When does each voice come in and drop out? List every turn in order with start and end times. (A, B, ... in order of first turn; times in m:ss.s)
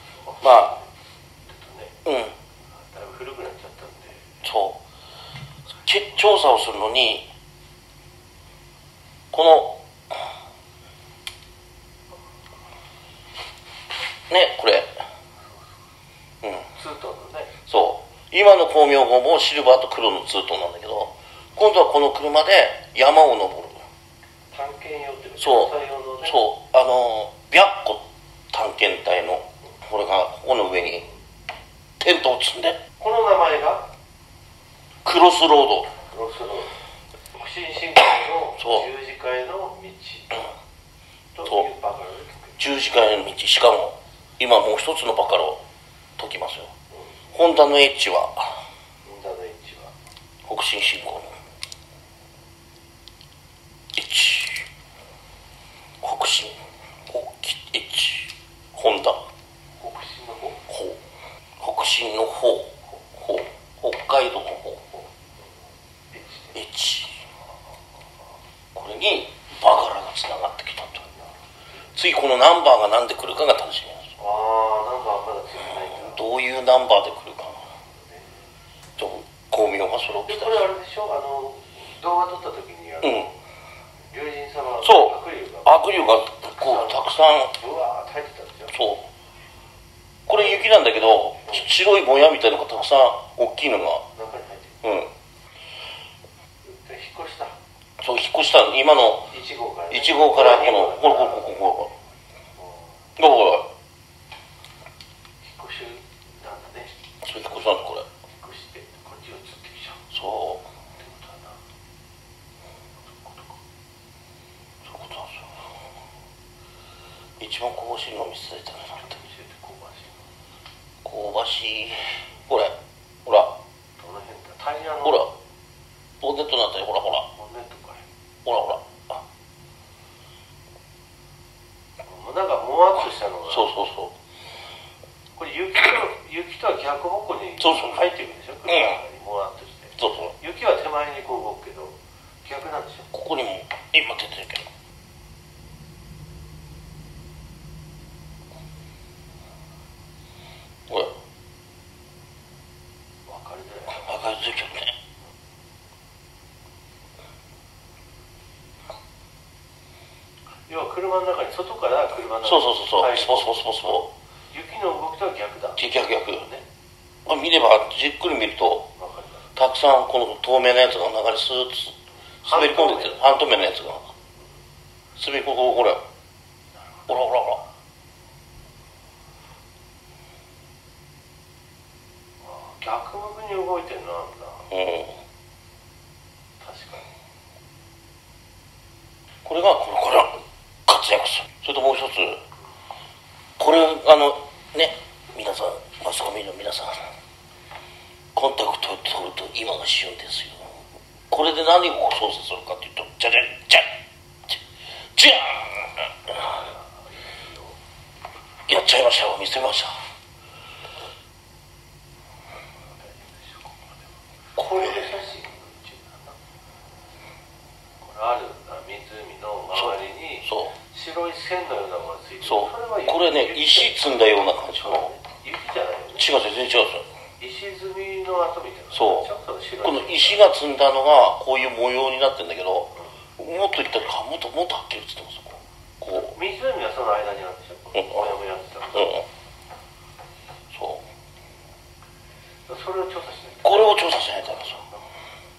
0:00.2-0:00.9 A
0:00.4-0:00.7 B
0:01.4-0:01.9 A
0:02.0-0:02.4 B
0:02.7-0:04.3 A
0:04.4-0:04.8 B
0:05.8-0:07.3 B
0:09.3-0:09.8 B
0:14.3-0:15.0 B
0:16.4-0:16.7 B
0:16.7-0:17.5 A
0:17.6-0:23.8 B
0:24.5-0:26.4 A
0:25.4-0:31.1 B
0:32.0-0:32.8 B
0:33.0-0:33.9 A
0:35.0-0:35.9 B
0:36.0-0:36.8 A
0:37.3-0:40.5 A
0:38.6-0:38.9 B
0:41.3-0:42.6 A
0:42.6-0:45.6 B
0:46.2-0:46.7 B
0:47.3-0:48.6 B
0:49.0-0:49.9 A
0:50.4-0:51.4 B
0:53.9-0:54.7 B
0:56.0-0:59.2 B
0:59.8-1:00.6 A
1:00.7-1:01.0 B
1:01.6-1:04.9 B
1:06.1-1:06.5 A
1:06.5-1:07.2 B
1:08.7-1:11.1 B
1:11.9-1:14.1 B
1:14.2-1:16.2 A
1:15.9-1:17.7 B
1:18.0-1:18.4 A
1:19.0-1:20.6 B
1:20.2-1:23.4 A
1:23.0-1:23.3 B
1:24.1-1:28.7 A
1:24.8-1:27.5 B
1:28.7-1:29.1 B
1:30.3-1:34.1 B
1:34.1-1:34.8 A
1:34.8-1:35.1 B
1:36.6-1:37.5 A
1:38.0-1:39.3 B
1:39.3-1:41.6 A
1:39.9-1:41.9 B
1:42.6-1:43.0 A
1:43.2-1:43.7 B
1:45.4-1:46.9 A
1:47.2-1:48.1 B
1:48.3-1:50.0 A
1:50.1-1:50.6 B
1:51.0-1:51.6 A
1:53.0-1:53.5 A
1:54.8-1:55.5 B
1:57.4-1:59.1 B
1:59.0-2:00.2 A
2:01.0-2:03.5 B
2:04.0-2:05.3 A
2:05.0-2:05.3 B
2:06.2-2:07.3 B
2:07.3-2:08.0 A
2:08.4-2:09.2 B
2:12.0-2:13.7 A
2:13.5-2:14.1 B
2:15.4-2:23.1 A
2:17.6-2:18.0 B
2:18.7-2:19.0 B
2:20.0-2:20.4 B
2:23.1-2:24.7 B
2:30.9-2:31.1 B
2:33.2-2:34.1 A
2:33.9-2:34.9 B
2:40.7-2:44.0 A
2:42.4-2:44.1 B
2:44.5-2:46.6 A
2:45.8-2:46.5 B
2:47.2-2:48.9 B
2:49.0-2:49.5 A
2:49.6-2:54.1 B
2:52.4-2:53.3 A
2:55.2-2:56.0 B
2:57.1-2:57.6 B
3:02.4-3:04.7 A
3:04.7-3:05.2 B
3:06.6-3:07.1 A
3:09.4-3:12.4 B
3:13.6-3:17.1 B
3:18.3-3:20.7 B
3:21.3-3:24.0 B
3:25.1-3:26.5 B
3:26.3-3:27.7 A
3:28.7-3:30.0 B
3:33.0-3:34.0 A
3:34.6-3:36.3 A
3:34.7-3:35.1 B
3:38.0-3:44.1 A
3:39.7-3:40.7 B
3:42.4-3:45.1 B
3:44.7-3:46.3 A
3:46.2-3:47.1 B
3:47.4-3:50.4 A
3:48.9-3:49.3 B
3:49.8-3:56.4 B
3:56.1-3:59.2 A
3:57.9-3:58.3 B
3:58.9-3:59.2 B
4:00.7-4:01.0 B
4:02.7-4:05.0 A
4:03.6-4:04.8 B